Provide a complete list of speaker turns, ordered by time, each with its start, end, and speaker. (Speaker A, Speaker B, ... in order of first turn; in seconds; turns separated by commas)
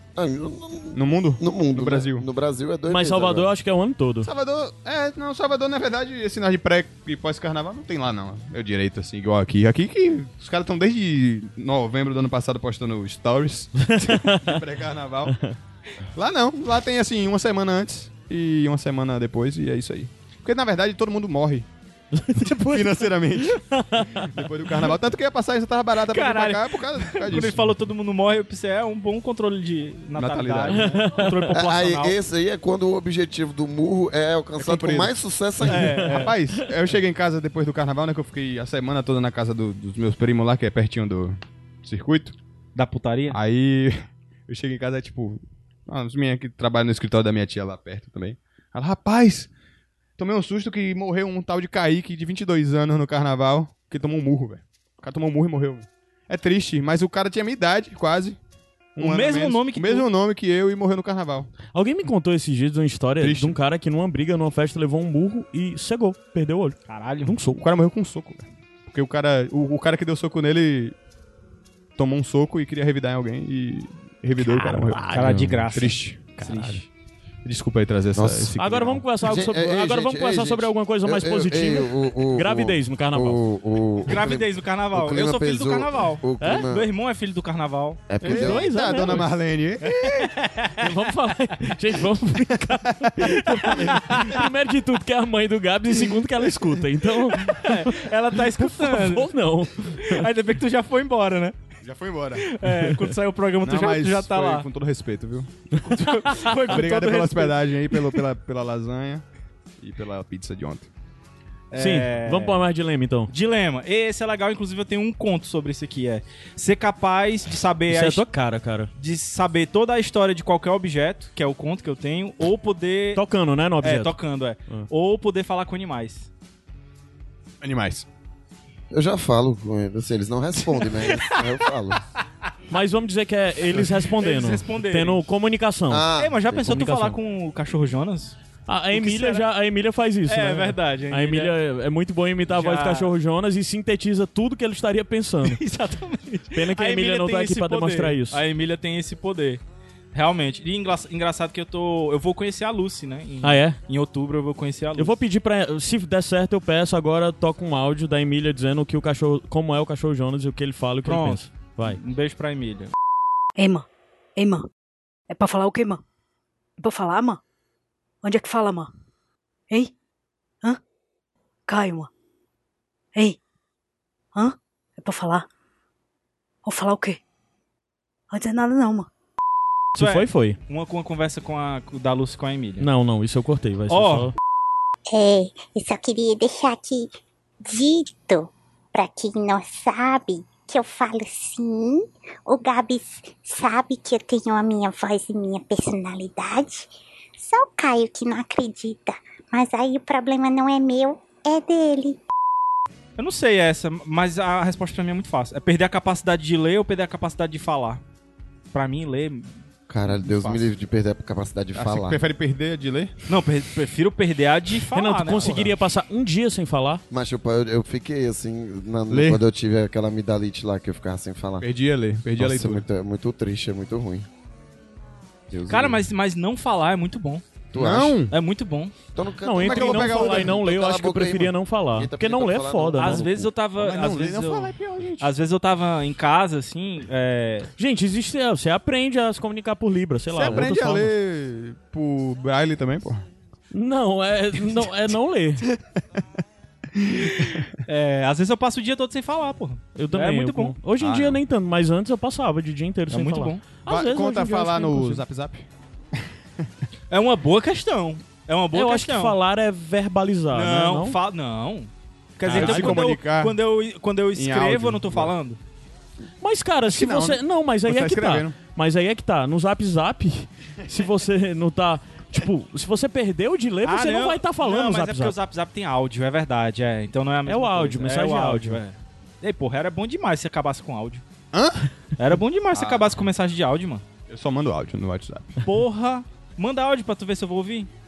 Speaker A: 0.1-3.5, Speaker B: 0.9-2.2, Speaker C: 2.9-4.3, Speaker B: 4.2-15.4, Speaker C: 13.8-14.6, Speaker B: 16.1-21.7, Speaker C: 22.1-24.9, Speaker B: 22.4-27.6, Speaker D: 26.1-32.1, Speaker B: 30.1-31.0, Speaker C: 30.7-31.5, Speaker A: 31.5-36.1, Speaker B: 34.6-35.1, Speaker D: 35.7-36.3, Speaker C: 35.7-36.6, Speaker B: 36.1-42.4, Speaker D: 42.7-43.4, Speaker B: 43.3-49.5, Speaker B: 50.2-58.4, Speaker B: 59.0-61.5, Speaker D: 59.0-60.1, Speaker C: 61.7-67.6, Speaker B: 63.2-63.5, Speaker D: 66.9-67.3, Speaker B: 67.5-70.9, Speaker B: 72.0-76.8, Speaker C: 74.4-75.5, Speaker D: 75.1-76.8, Speaker B: 77.4-78.9, Speaker A: 78.1-86.9, Speaker C: 78.6-83.4, Speaker D: 84.0-88.0, Speaker C: 86.4-86.7, Speaker A: 88.1-88.7, Speaker B: 88.2-90.3, Speaker C: 88.2-89.3, Speaker D: 89.8-90.9, Speaker C: 90.8-100.3, Speaker B: 93.0-93.4, Speaker D: 93.2-94.5, Speaker D: 97.3-99.3, Speaker D: 99.9-101.5, Speaker B: 101.8-102.5, Speaker D: 102.4-104.7, Speaker C: 102.7-103.0, Speaker B: 103.6-105.5, Speaker D: 105.8-108.2, Speaker B: 106.7-109.2, Speaker B: 109.8-110.9, Speaker D: 111.7-112.6, Speaker C: 111.7-113.3, Speaker D: 113.3-118.2, Speaker C: 117.9-118.9, Speaker D: 119.0-123.2, Speaker C: 123.1-124.1, Speaker D: 123.8-126.3, Speaker B: 127.6-128.1, Speaker A: 128.9-132.0, Speaker D: 131.1-131.4, Speaker C: 132.7-136.1, Speaker D: 133.7-135.2, Speaker A: 135.9-136.8, Speaker D: 136.2-138.3, Speaker C: 136.6-137.2, Speaker C: 138.7-145.6, Speaker D: 138.9-139.4, Speaker D: 140.3-141.5, Speaker D: 142.5-143.1, Speaker D: 145.4-149.6, Speaker C: 146.5-148.4, Speaker D: 150.1-155.1, Speaker C: 153.4-153.8, Speaker C: 155.0-162.0, Speaker D: 161.1-162.9, Speaker E: 163.6-163.8, Speaker E: 164.4-164.7, Speaker E: 165.3-166.0, Speaker E: 166.8-167.4, Speaker E: 168.2-168.9, Speaker E: 171.7-172.1, Speaker E: 174.3-175.4, Speaker E: 176.7-177.2, Speaker E: 178.3-179.1, Speaker C: 179.9-180.6, Speaker D: 179.9-182.9, Speaker C: 182.8-184.3, Speaker D: 183.9-184.3, Speaker F: 185.1-202.2, Speaker D: 203.2-208.0, Speaker D: 208.7-209.5, Speaker A: 209.9-212.2, Speaker B: 210.1-210.7, Speaker B: 211.7-213.1, Speaker D: 213.3-215.7, Speaker C: 214.9-217.0, Speaker A: 217.1-221.7, Speaker B: 219.1-219.4, Speaker B: 221.6-222.8, Speaker A: 222.4-224.3, Speaker A: 225.5-226.0, Speaker D: 225.7-227.4, Speaker A: 227.7-228.2, Speaker B: 227.7-228.3, Speaker D: 228.3-228.9, Speaker A: 229.1-233.5, Speaker C: 229.4-233.2, Speaker B: 229.6-230.6, Speaker D: 233.0-237.7, Speaker B: 233.8-235.3, Speaker C: 237.8-241.1, Speaker B: 240.3-243.2, Speaker A: 240.4-240.7, Speaker C: 243.7-245.6, Speaker B: 246.9-247.7, Speaker D: 247.8-250.7, Speaker C: 249.9-255.2, Speaker B: 251.0-251.4, Speaker D: 253.1-253.6, Speaker B: 253.8-255.7, Speaker D: 257.1-259.3, Speaker C: 258.7-261.2, Speaker D: 260.5-265.6, Speaker C: 262.5-263.1, Speaker B: 262.5-263.6, Speaker B: 264.3-265.3, Speaker C: 266.4-275.4, Speaker B: 266.9-268.5, Speaker D: 273.8-281.2, Speaker C: 277.4-278.8, Speaker B: 281.5-281.9, Speaker D: 282.2-284.0, Speaker B: 282.7-283.1, Speaker B: 284.3-285.6, Speaker D: 285.6-287.9